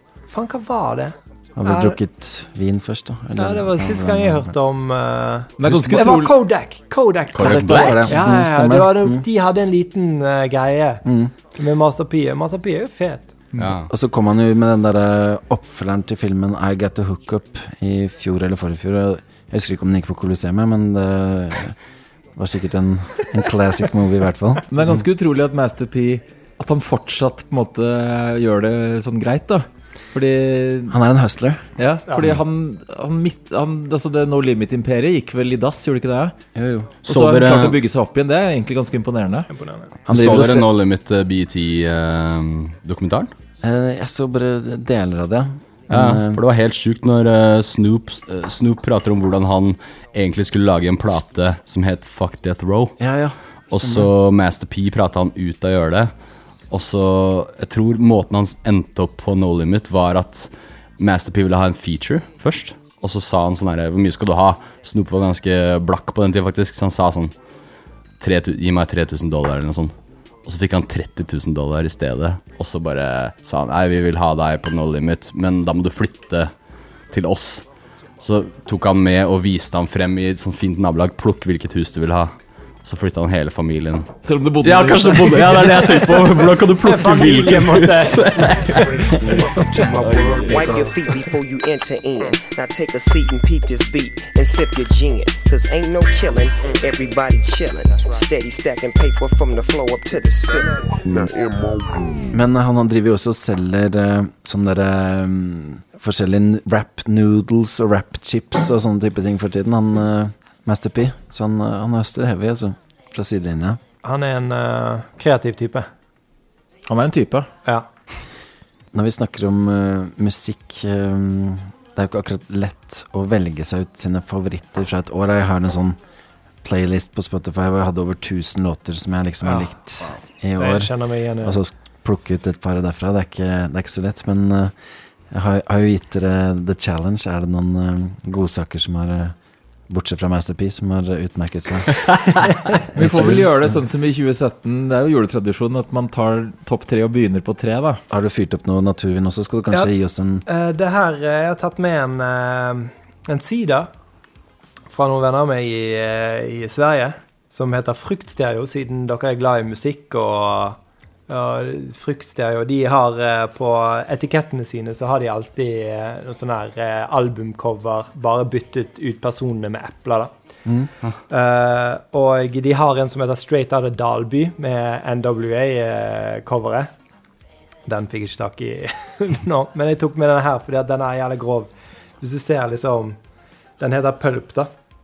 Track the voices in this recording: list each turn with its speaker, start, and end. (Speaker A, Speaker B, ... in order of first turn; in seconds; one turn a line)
Speaker A: 0.3-2.0
Speaker B: 1.6-4.5
Speaker A: 3.4-11.0
Speaker C: 5.6-6.3
Speaker D: 7.3-8.1
Speaker B: 7.4-9.2
Speaker B: 11.1-11.3
Speaker A: 11.6-13.3
Speaker D: 13.6-13.9
Speaker B: 13.9-21.8
Speaker B: 22.4-24.7
Speaker C: 24.7-31.0
Speaker B: 30.9-31.6
Speaker C: 31.8-36.3
Speaker B: 36.5-36.9
Speaker D: 37.0-37.8
Speaker C: 37.1-39.5
Speaker A: 39.5-39.9
Speaker B: 40.1-40.7
Speaker D: 40.1-43.3
Speaker B: 43.6-46.4
Speaker D: 45.9-53.0
Speaker B: 53.0-54.1
Speaker D: 53.7-56.1
Speaker D: 56.7-67.3
Speaker D: 68.2-69.9
Speaker D: 70.5-76.5
Speaker D: 77.1-77.7
Speaker D: 78.2-82.3
Speaker D: 82.8-84.1
Speaker C: 84.2-86.3
Speaker D: 84.6-90.0
Speaker A: 86.8-88.8
Speaker E: 89.4-101.3
Speaker B: 102.3-113.8
Speaker A: 114.0-115.9
Speaker C: 116.9-117.5
Speaker B: 118.9-126.0
Speaker B: 126.6-134.7
Speaker A: 129.4-129.7
Speaker A: 130.6-131.6
Speaker B: 135.3-139.3
Speaker B: 139.9-142.1
Speaker B: 142.9-143.5
Speaker C: 143.0-148.0
Speaker B: 148.1-150.4
Speaker A: 150.5-153.9
Speaker A: 154.9-160.8
Speaker A: 161.3-170.3
Speaker A: 171.3-176.9
Speaker A: 177.9-181.7
Speaker A: 182.2-183.2
Speaker A: 183.8-184.7